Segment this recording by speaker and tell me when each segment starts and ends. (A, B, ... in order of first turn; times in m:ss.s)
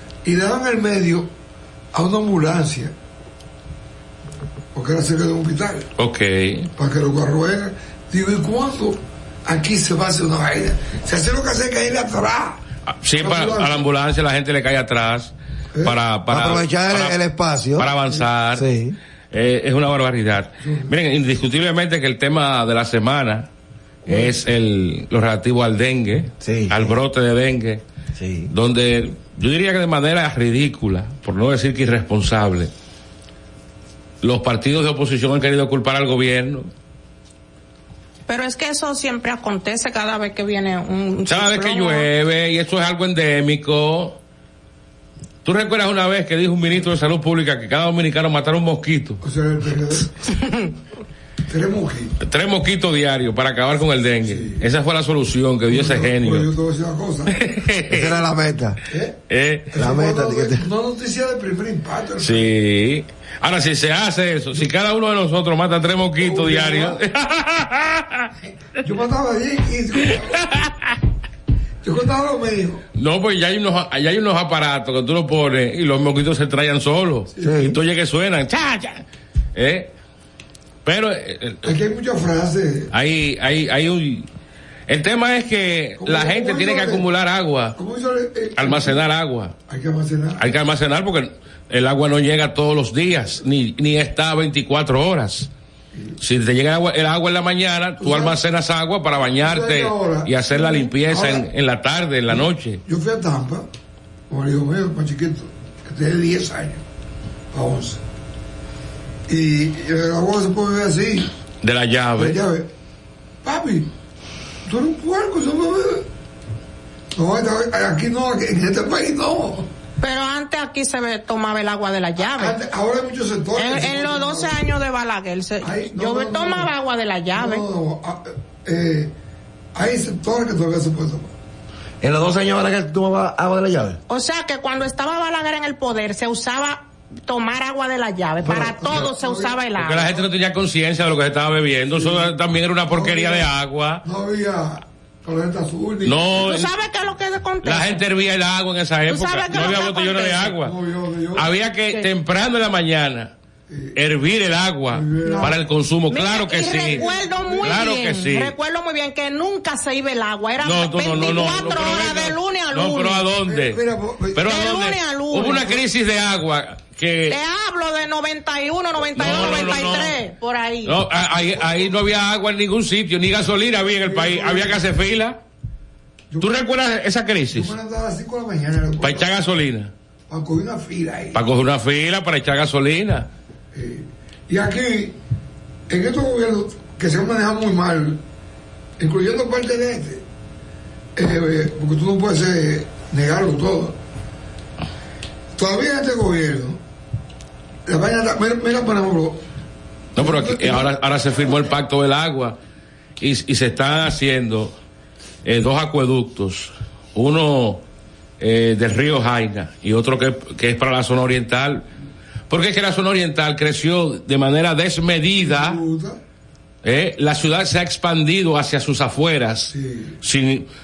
0:00.2-0:01.3 A
0:01.9-0:02.9 A
0:04.7-0:05.9 A
0:06.0-0:06.7 B
0:06.8-0:12.6 A
0:12.9-0:17.2 B
0:13.2-0:13.8 A
0:16.3-0:17.9 C
0:17.8-0:18.6 B
0:18.5-0:19.0 C
0:19.3-0:23.5 B
0:20.6-0:20.9 A
0:24.0-0:24.4 A
0:24.0-0:27.8 B
0:26.4-0:27.0 C
0:28.2-0:28.5 C
0:28.5-0:32.7 B
0:34.2-0:36.7 B
0:38.3-0:42.1 D
0:41.3-0:44.2 B
0:45.4-0:49.2 B
0:49.2-0:50.3 A
0:51.5-0:52.2 A
0:52.2-0:56.5 B
0:54.2-0:54.6 A
0:55.7-0:57.4 A
0:57.2-0:58.2 B
0:57.9-0:58.8 C
0:58.9-0:59.2 A
0:59.3-0:59.7 B
0:59.7-1:02.5 A
0:59.8-1:00.6 C
1:02.2-1:08.3 B
1:06.2-1:07.0 A
1:08.8-1:10.4 A
1:10.1-1:11.0 B
1:11.8-1:12.8 A
1:13.0-1:19.9 B
1:17.4-1:17.7 A
1:17.4-1:17.7 C
1:20.8-1:21.7 B
1:21.6-1:22.9 A
1:22.9-1:24.3 B
1:24.9-1:27.8 B
1:26.0-1:27.0 A
1:27.8-1:29.0 A
1:28.6-1:29.5 B
1:29.7-1:30.5 A
1:30.4-1:35.5 B
1:36.2-1:42.8 B
1:38.0-1:38.4 A
1:39.4-1:41.5 A
1:42.3-1:43.7 A
1:44.3-1:46.8 A
1:47.5-1:48.0 A
1:49.3-1:51.3 A
1:51.6-1:52.4 B
1:52.2-1:52.7 A
1:53.4-1:53.9 A
1:54.6-1:56.0 A
1:57.1-1:59.7 A
2:00.0-2:02.6 D
2:02.3-2:04.6 A
2:03.6-2:07.6 D
2:05.6-2:06.7 A
2:07.3-2:09.1 A
2:09.7-2:11.3 A
2:12.0-2:14.0 C
2:14.1-2:20.1 D
2:18.4-2:19.6 A
2:19.7-2:24.0 B
2:22.0-2:22.3 A
2:22.9-2:23.5 A
2:24.0-2:26.5 A
2:26.0-2:26.7 B
2:26.4-2:28.0 D
2:27.6-2:30.7 B
2:29.1-2:30.5 D
2:30.5-2:31.5 A
2:31.3-2:33.3 B
2:33.7-2:34.0 A
2:33.9-2:37.0 B
2:34.9-2:35.6 A
2:35.2-2:35.5 D
2:36.1-2:43.2 D
2:36.6-2:37.9 A
2:37.6-2:38.5 B
2:40.6-2:43.8 B
2:43.4-2:44.6 A
2:44.3-2:47.4 B
2:44.4-2:45.7 D
2:47.3-2:51.0 D
2:49.1-2:50.2 B
2:50.8-2:55.4 B
2:54.0-2:54.8 A
2:56.3-2:56.6 A
2:56.4-2:57.7 B
2:57.5-2:59.4 A
2:59.0-2:59.9 B
3:00.3-3:01.4 A
3:01.3-3:03.3 B
3:03.7-3:05.2 A
3:05.9-3:08.2 A
3:09.0-3:10.2 A
3:11.2-3:14.0 A
3:15.6-3:16.8 A
3:17.8-3:19.4 A
3:20.2-3:22.6 B
3:20.2-3:20.9 A
3:23.2-3:24.7 B
3:25.4-3:27.8 B
3:28.4-3:31.9 B
3:32.5-3:35.8 B
3:35.4-3:36.2 A
3:36.8-3:40.7 B
3:39.7-3:40.2 A